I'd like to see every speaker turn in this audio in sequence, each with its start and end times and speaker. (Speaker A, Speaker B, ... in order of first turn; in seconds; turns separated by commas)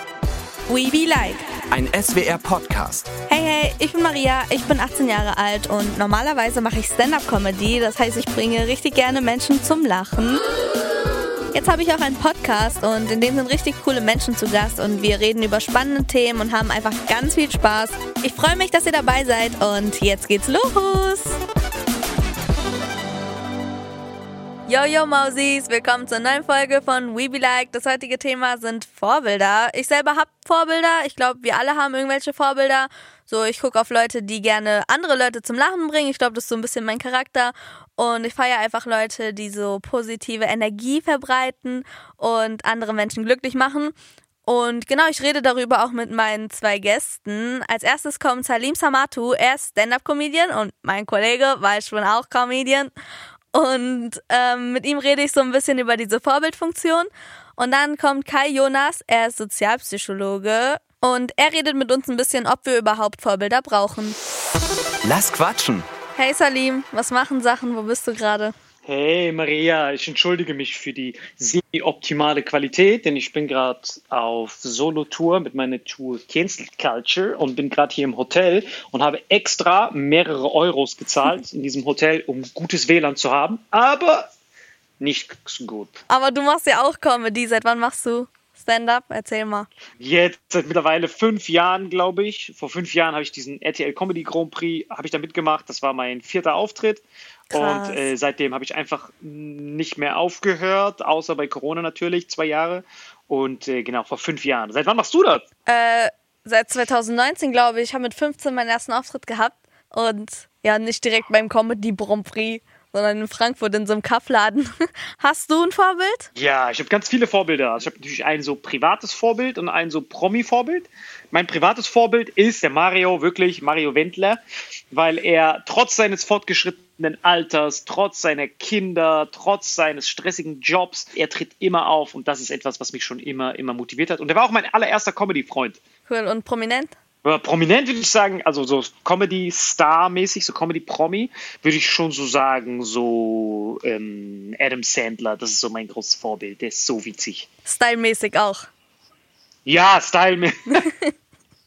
Speaker A: 0.7-1.4, Speaker B: 1.7-3.1, Speaker A: 3.3-10.4, Speaker A: 11.5-21.4, Speaker A: 24.7-43.9, Speaker A: 44.5-52.9, Speaker A: 53.5-64.2, Speaker B: 65.0-65.9, Speaker A: 66.2-68.5, Speaker C: 68.8-84.2, Speaker C: 85.0-86.0, Speaker A: 86.1-89.7, Speaker C: 90.0-105.5, Speaker A: 97.5-98.1, Speaker A: 105.7-116.3, Speaker C: 116.3-124.4, Speaker C: 124.9-135.8, Speaker A: 136.1-136.9, Speaker C: 137.2-147.5, Speaker A: 147.7-148.7, Speaker C: 149.7-150.9, Speaker A: 150.8-151.1